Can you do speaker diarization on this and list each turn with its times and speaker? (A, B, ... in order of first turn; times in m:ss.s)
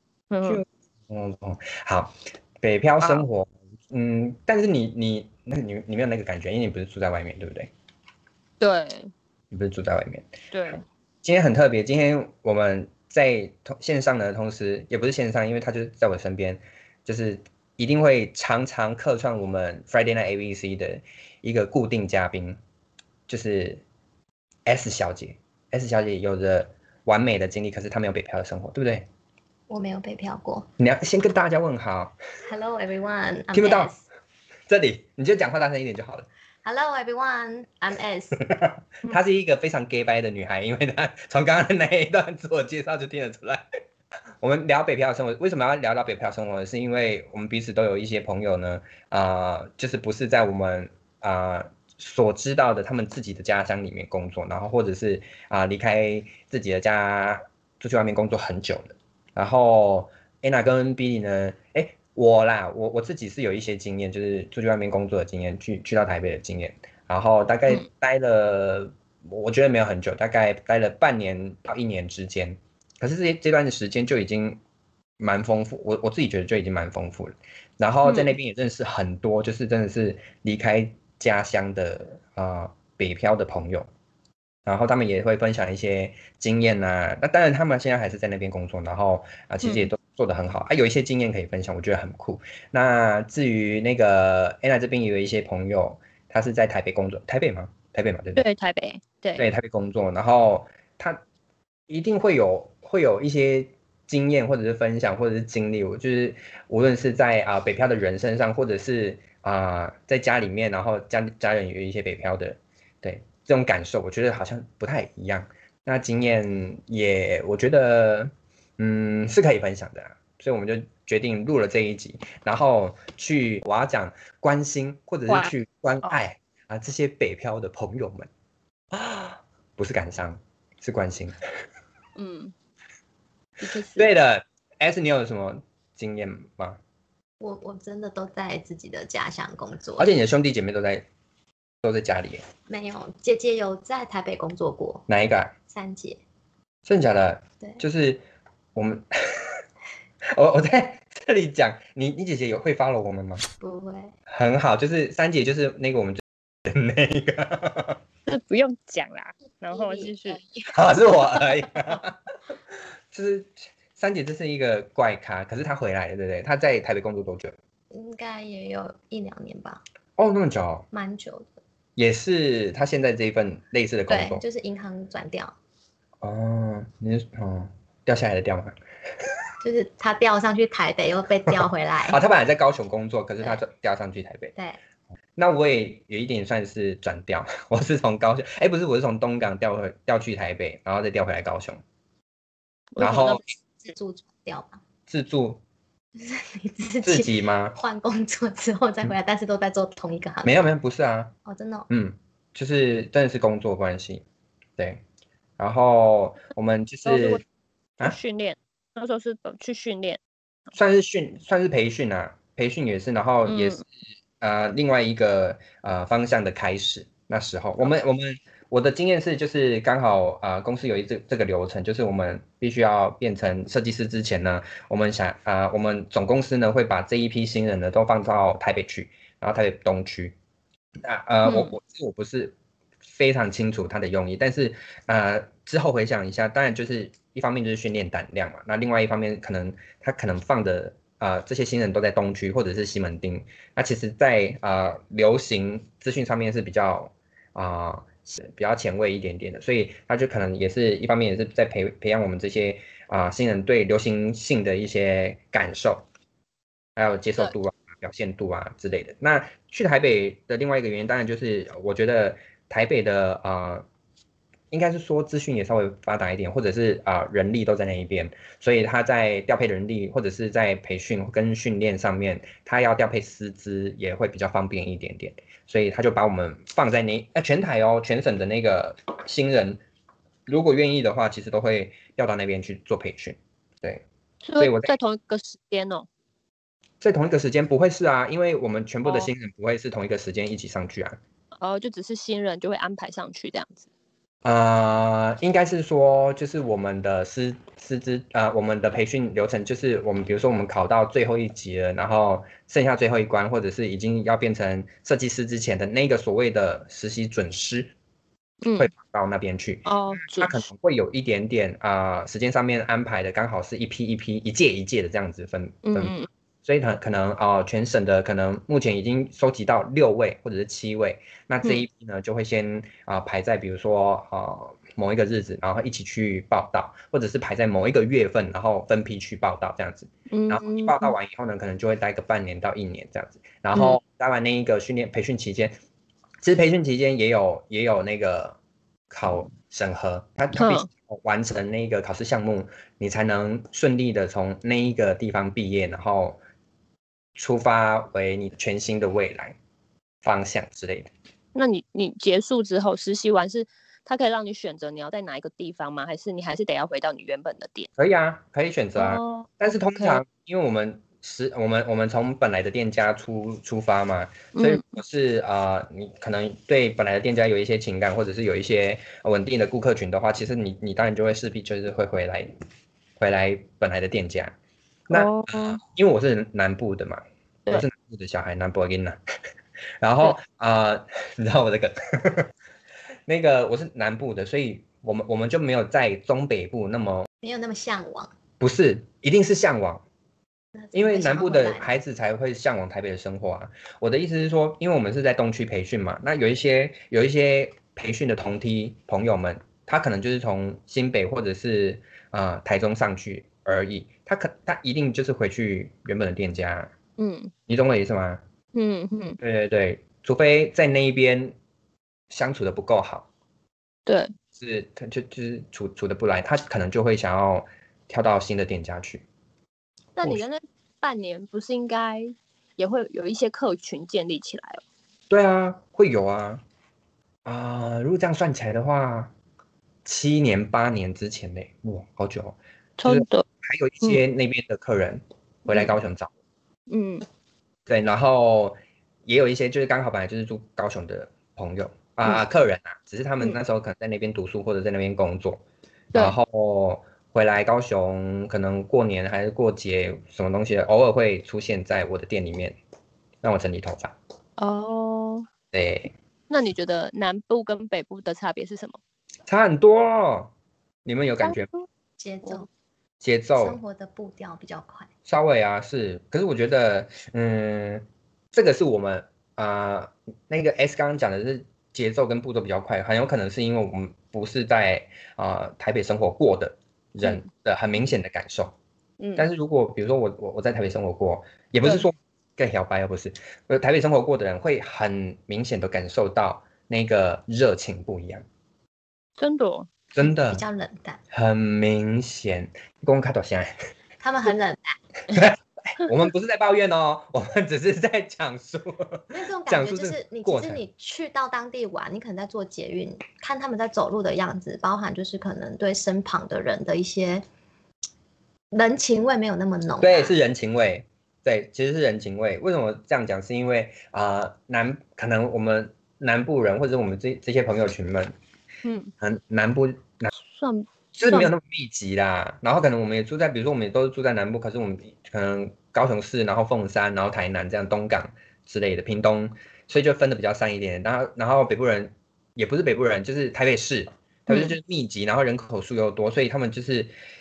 0:00.3-0:00.6 A
0:00.4-0:07.7 B
0:08.6-0:09.1 A
0:09.5-0:10.3 B
0:10.5-0:10.8 A
0:11.2-0:22.6 B
0:23.3-0:23.8 B
0:24.7-0:29.1 B
0:29.7-0:30.7 C
0:30.8-0:32.2 B
0:32.4-0:34.0 C
0:33.5-0:33.9 B
0:34.7-0:36.3 B
0:36.6-0:38.4 C
0:38.5-0:43.7 B
0:44.4-1:14.6 B
1:15.2-1:23.9 B
1:18.0-1:18.3 A
1:24.7-1:38.4 B
1:29.6-1:29.9 A
1:38.4-1:39.4 A
1:39.4-1:41.2 B
1:41.9-2:08.3 B
2:05.3-2:05.5 A
2:08.9-2:11.4 B
2:12.2-2:12.5 A
2:13.6-2:14.1 A
2:14.0-2:16.8 B
2:17.4-2:20.1 C
2:20.0-2:21.1 B
2:21.8-2:22.4 B
2:22.7-2:25.0 C
2:25.1-2:25.5 B
2:25.7-2:26.2 C
2:26.8-2:28.2 B
2:28.8-2:29.6 B
2:30.3-2:33.4 B
2:33.6-2:34.1 C
2:34.3-2:38.0 B
2:38.3-2:40.4 A
2:39.7-2:40.7 C
2:40.7-2:42.2 B
2:43.1-2:47.6 B
2:47.9-2:49.8 C
2:50.2-2:50.9 B
2:50.9-2:51.6 C
2:52.0-2:54.4 B
2:54.1-2:55.5 C
2:56.2-2:58.8 B
2:59.6-3:02.2 C
3:01.5-3:04.5 B
3:05.4-3:11.8 B
3:12.9-3:13.4 A
3:13.0-3:13.4 B
3:13.8-3:14.8 C
3:15.1-3:15.6 B
3:16.2-3:20.6 C
3:17.0-3:17.8 B
3:20.4-3:21.3 B
3:21.4-3:21.9 C
3:21.9-3:24.2 B
3:25.6-3:27.4 B
3:27.1-3:27.4 A
3:28.0-3:30.2 A
3:30.7-3:33.9 B
3:33.5-3:33.8 A
3:34.4-3:50.4 B
3:51.0-3:52.6 B
3:51.4-3:51.7 A
3:53.1-4:16.0 B
4:17.0-4:23.8 B
4:24.7-4:39.8 B
4:40.5-4:44.0 B
4:44.4-4:46.1 A
4:44.6-4:44.9 B
4:47.0-4:51.2 B
4:49.0-4:49.3 A
4:51.6-4:53.9 A
4:54.4-5:07.9 B
5:08.6-5:08.9 A
5:08.8-5:35.8 B
5:09.8-5:10.7 A
5:15.8-5:16.3 A
5:30.3-5:31.2 A
5:36.4-5:38.6 B
5:39.1-5:46.4 B
5:40.6-5:40.9 A
5:47.4-5:49.6 B
5:50.2-5:51.1 B
5:51.6-5:57.9 A
5:58.0-6:12.5 B
5:59.0-6:00.2 A
6:04.5-6:05.0 A
6:13.2-6:14.6 B
6:15.1-6:19.2 B
6:15.1-6:15.8 A
6:20.0-6:22.5 B
6:23.3-6:27.3 B
6:27.4-6:28.3 C
6:28.6-6:30.0 B
6:30.8-6:31.9 C
6:30.9-6:46.9 B
6:47.2-6:47.5 A
6:47.7-6:48.4 B
6:48.8-6:49.4 A
6:49.4-6:51.6 B
6:52.3-6:53.3 B
6:54.1-6:54.3 A
6:54.6-6:59.2 B
7:00.2-7:04.8 A
7:05.3-7:06.6 B
7:07.4-7:09.3 B
7:10.0-7:16.3 B
7:13.0-7:13.4 A
7:15.7-7:16.0 A
7:16.9-7:17.2 A
7:17.9-7:25.6 B
7:26.2-7:32.8 B
7:33.4-7:34.2 B
7:34.6-7:35.5 A
7:35.7-7:36.1 B
7:36.5-7:39.0 A
7:39.5-7:40.5 B
7:41.0-7:41.7 B
7:41.4-7:41.9 A
7:42.2-7:42.7 C
7:43.2-7:43.8 B
7:43.6-7:45.1 C
7:45.3-7:58.7 B
7:59.2-7:59.5 A
7:59.4-8:08.4 B
8:09.4-8:09.9 A
8:10.1-8:10.6 B
8:10.4-8:11.2 C
8:11.3-8:13.7 B
8:14.2-8:15.0 C
8:15.3-8:20.8 B
8:19.3-8:27.4 C
8:28.7-8:30.3 C
8:30.0-8:38.3 B
8:38.8-8:39.1 A
8:39.2-8:40.3 B
8:40.5-8:41.5 A
8:41.2-8:57.1 B
8:54.5-8:54.8 A